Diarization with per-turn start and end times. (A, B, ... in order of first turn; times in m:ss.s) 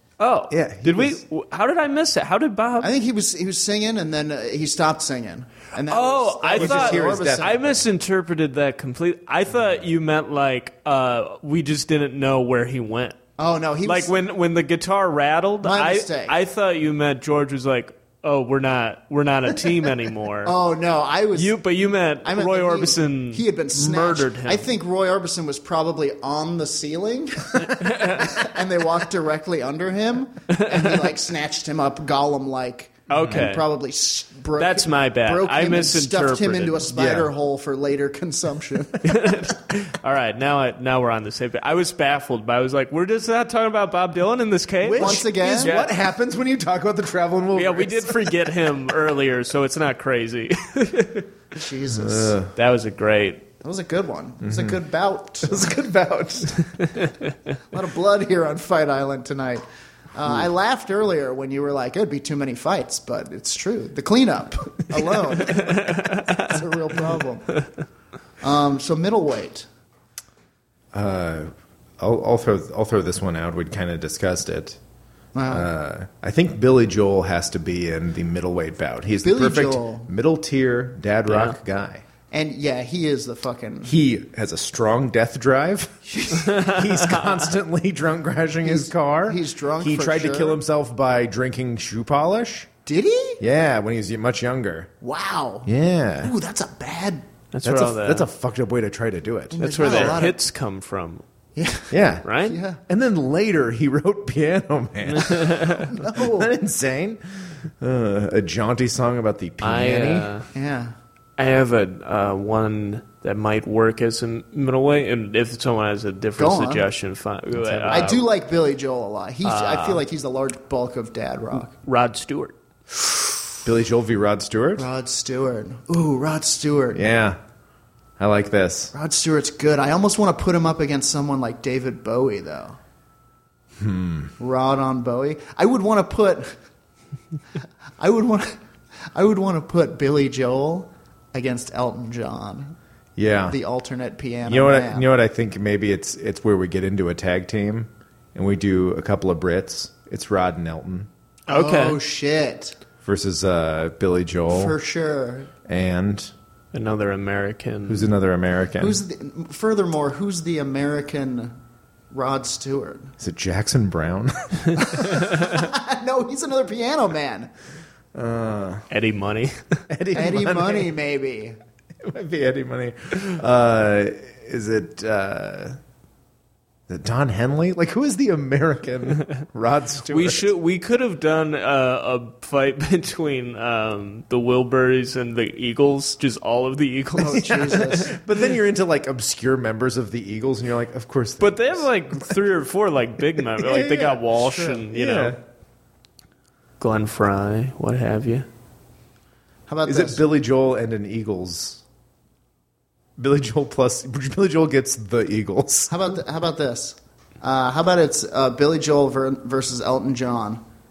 0:00.2-0:02.9 A
0:00.5-0:01.2 B
0:02.8-0:07.7 C
0:05.9-0:13.2 A
0:06.5-0:07.8 B
0:13.4-0:14.2 C
0:13.8-0:20.5 A
0:15.6-0:16.4 C
0:20.4-0:21.6 C
0:21.4-0:24.7 A
0:22.2-0:39.4 C
0:27.7-0:28.3 A
0:30.5-0:30.9 A
0:33.1-0:33.6 A
0:33.1-0:33.5 B
0:34.6-0:36.9 A
0:36.9-0:37.3 B
0:39.0-0:45.9 A
0:44.8-0:48.3 B
0:44.9-0:45.7 C
0:47.5-0:51.3 A
0:51.6-0:52.4 C
0:52.0-0:52.5 B
0:52.5-0:53.4 A
0:53.6-0:55.7 C
0:54.4-0:54.8 B
0:55.4-0:56.6 B
0:57.7-0:59.6 C
1:00.1-1:07.6 C
1:05.5-1:06.4 A
1:08.4-1:09.7 C
1:10.9-1:14.8 B
1:15.3-1:15.7 C
1:15.5-1:22.0 B
1:19.2-1:20.1 C
1:21.3-1:21.6 A
1:22.3-1:23.9 C
1:23.8-1:32.7 B
1:26.2-1:26.7 C
1:28.6-1:30.6 C
1:32.8-1:33.4 C
1:33.4-1:34.9 B
1:35.0-1:35.7 C
1:35.6-1:36.3 B
1:36.2-1:37.3 C
1:37.5-1:38.3 A
1:37.6-1:40.2 B
1:39.5-1:40.4 C
1:39.6-1:41.2 A
1:41.6-1:42.8 C
1:41.9-1:42.2 B
1:42.2-1:42.6 A
1:42.9-1:50.3 B
1:45.0-1:45.9 A
1:45.8-1:46.5 C
1:49.6-1:50.5 A
1:50.5-1:50.9 C
1:51.4-1:58.2 A
1:56.4-1:56.8 C
1:57.5-1:58.2 B
1:57.9-2:01.7 C
1:59.4-2:00.0 A
2:01.7-2:02.6 A
2:03.6-2:04.9 B
2:04.8-2:07.0 C
2:06.9-2:07.4 B
2:08.2-2:08.9 B
2:08.9-2:12.8 C
2:13.8-2:14.3 B
2:14.4-2:16.5 C
2:18.0-2:18.6 C
2:19.1-2:22.8 C
2:23.2-2:23.6 B
2:23.5-2:25.0 C
2:24.4-2:31.1 B
2:31.5-2:32.0 A
2:31.5-2:32.8 C
2:33.0-2:34.8 B
2:34.5-2:35.5 C
2:35.6-2:36.3 B
2:36.7-2:38.1 A
2:37.9-2:39.0 B
2:38.8-2:41.5 C
2:42.1-2:43.1 C
2:43.2-2:45.3 B
2:44.9-2:47.5 C
2:48.1-2:48.9 B
2:48.9-2:49.8 A
2:49.9-2:51.0 B
2:50.1-2:51.6 C
2:52.0-2:55.8 B
2:56.9-3:00.5 B
3:00.1-3:08.1 A
3:07.2-3:08.2 C
3:07.5-3:12.3 B
3:11.4-3:15.4 A
3:13.4-3:14.2 B
3:14.2-3:14.8 C
3:14.9-3:15.4 B
3:16.8-3:18.5 A
3:19.7-3:20.2 C
3:19.8-3:21.8 B
3:23.2-3:26.1 B
3:25.9-3:30.6 C